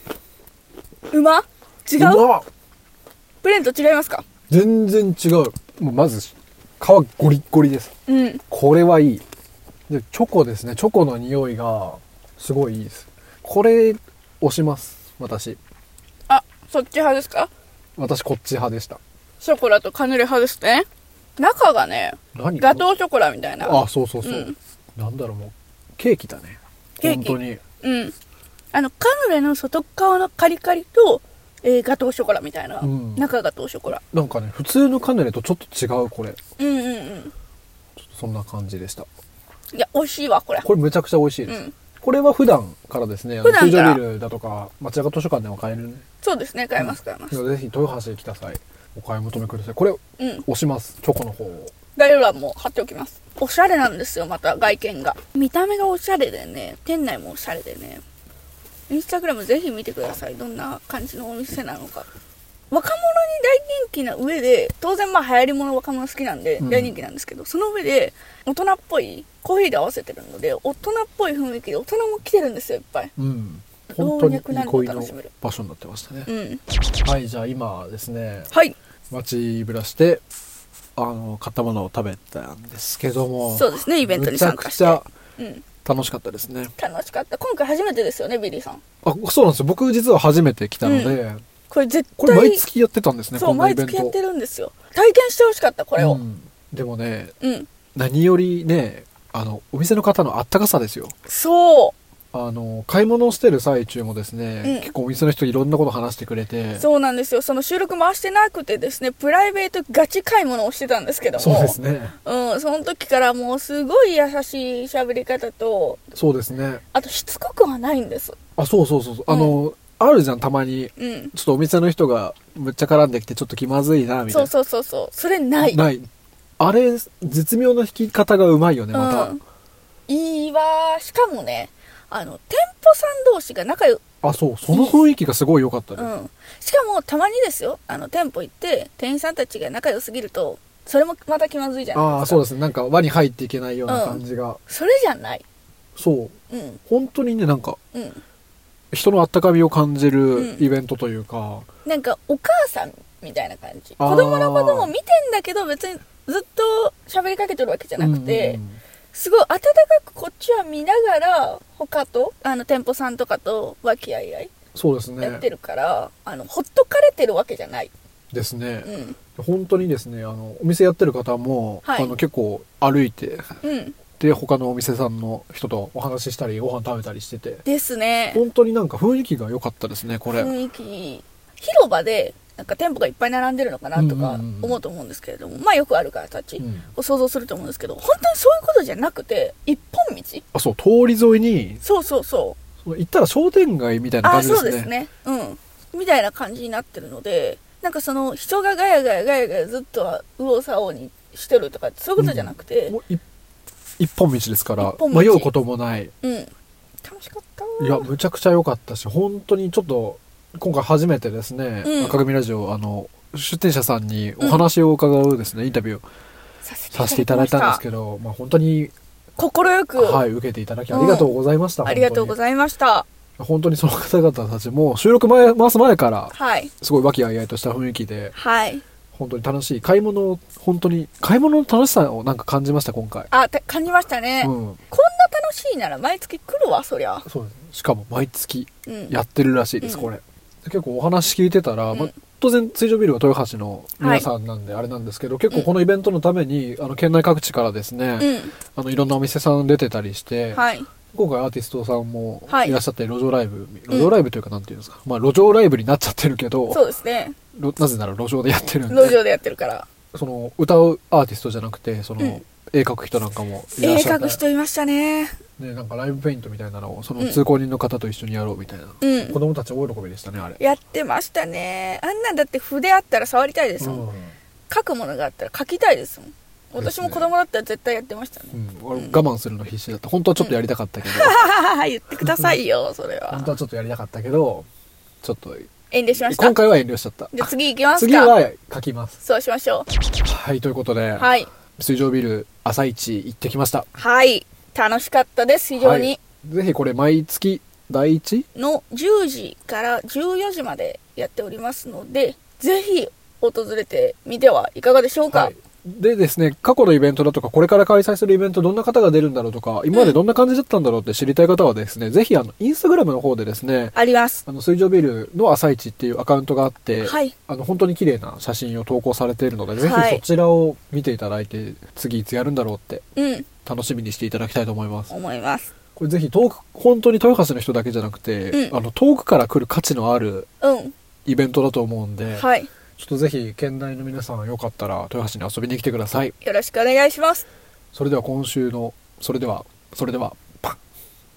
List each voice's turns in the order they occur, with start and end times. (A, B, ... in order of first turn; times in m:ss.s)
0:01.1-0:02.2 A
0:02.0-0:02.4 B
0:03.4-0:04.2 A
0:04.5-0:07.9 B
0:08.1-0:08.4 A
0:08.5-0:09.2 B
0:09.9-0:15.6 B
0:16.3-0:17.5 A
0:18.0-0:19.0 B
0:19.4-0:20.9 A
0:21.4-0:24.5 A
0:22.3-0:22.8 B
0:23.6-0:27.6 B
0:27.0-0:28.1 A
0:28.7-0:34.0 A
0:32.8-0:33.2 B
0:34.1-0:36.4 B
0:36.6-0:37.3 A
0:38.0-0:39.1 B
0:39.7-0:40.7 A
0:40.6-0:46.0 B
0:41.5-0:41.7 A
0:43.4-0:44.0 A
0:46.2-0:47.4 A
0:46.8-0:51.7 B
0:50.2-0:50.4 A
0:52.0-0:58.0 A
0:58.9-1:02.1 A
1:02.7-1:13.1 A
1:06.6-1:06.9 B
1:13.2-1:16.3 B
1:14.0-1:15.3 A
1:16.3-1:16.6 A
1:17.0-1:18.5 B
1:19.1-1:20.2 B
1:21.0-1:25.0 B
1:23.5-1:25.6 A
1:25.8-1:26.7 B
1:26.8-1:28.8 A
1:29.0-1:31.4 B
1:30.8-1:31.2 A
1:31.7-1:32.6 A
1:32.2-1:34.2 B
1:33.3-1:36.2 A
1:36.0-1:37.3 B
1:37.4-1:37.7 A
1:37.9-1:41.1 B
1:41.3-1:41.9 A
1:42.3-1:46.8 B
1:44.6-1:44.9 A
1:46.8-1:56.1 A
1:51.4-1:52.1 B
1:56.1-1:56.8 B
1:56.9-1:58.4 A
1:58.6-2:04.5 B
1:59.3-1:59.6 A
2:01.0-2:01.3 A
2:04.3-2:05.8 A
2:05.6-2:06.1 B
2:06.6-2:09.4 B
2:08.9-2:09.4 A
2:10.1-2:14.1 A
2:14.2-2:16.1 B
2:14.7-2:15.0 A
2:16.0-2:22.4 A
2:21.9-2:24.6 B
2:23.9-2:25.4 A
2:26.0-2:26.3 B
2:26.5-2:26.8 A
2:26.9-2:27.8 B
2:27.9-2:28.2 A
2:28.9-2:31.7 B
2:30.3-2:30.6 A
2:31.8-2:38.6 A
2:34.0-2:34.9 B
2:38.0-2:38.8 B
2:39.1-2:44.5 A
2:44.7-2:45.4 B
2:45.2-2:47.9 A
2:48.3-2:53.5 B
2:48.8-2:49.2 A
2:51.8-2:52.1 A
2:53.6-2:54.0 A
2:54.1-2:57.6 B
2:57.6-2:58.4 A
2:58.3-3:00.5 B
3:00.3-3:10.4 A
3:04.0-3:04.8 B
3:06.6-3:06.8 B
3:10.5-3:11.8 B
3:11.8-3:12.6 A
3:12.8-3:14.9 B
3:14.2-3:23.0 A
3:22.2-3:23.2 B
3:24.0-3:26.1 B
3:24.8-3:25.5 A
3:26.2-3:26.5 A
3:27.0-3:28.1 A
3:27.8-3:36.0 B
3:31.8-3:32.2 A
3:36.6-3:37.8 A
3:36.9-3:38.9 B
3:39.4-3:40.2 A
3:40.0-3:42.4 B
3:40.9-3:41.3 A
3:41.8-3:43.0 A
3:43.4-3:48.3 B
3:46.3-3:46.7 A
3:48.4-3:48.8 A
3:49.1-3:53.3 B
3:53.3-3:57.2 A
3:54.4-3:54.8 B
3:57.2-4:16.8 B
3:58.9-3:59.1 A
3:59.8-4:00.1 A
4:04.0-4:04.3 A
4:08.2-4:08.5 A
4:10.5-4:10.9 A
4:12.5-4:12.8 A
4:16.7-4:17.3 A
4:17.5-4:19.2 B
4:18.9-4:19.9 A
4:20.1-4:24.4 B
4:23.8-4:25.4 A
4:25.6-4:30.6 B
4:29.0-4:29.4 A
4:30.6-4:34.0 A
4:33.8-4:34.3 B
4:34.7-4:39.2 A
4:36.8-4:37.3 B
4:38.5-4:41.4 B
4:41.0-4:43.5 A
4:42.2-4:42.6 B
4:43.3-4:44.7 B
4:45.2-4:45.7 B
4:45.9-4:46.6 A
4:46.2-4:49.2 B
4:47.3-4:48.3 A
4:49.2-4:49.9 A
4:50.2-4:53.9 B
4:51.2-4:51.5 A
4:54.0-4:56.2 A
4:55.8-4:58.4 B
4:58.6-5:05.5 A
5:05.3-5:23.0 B
5:13.9-5:14.4 A
5:17.0-5:17.3 A
5:19.8-5:20.2 A
5:23.2-5:23.5 A
5:23.6-5:25.1 B
5:25.1-5:25.7 A
5:26.0-5:30.5 B
5:30.6-5:30.9 A
5:31.2-5:36.3 B
5:32.4-5:32.7 A
5:36.4-5:37.4 A
5:37.9-5:40.8 B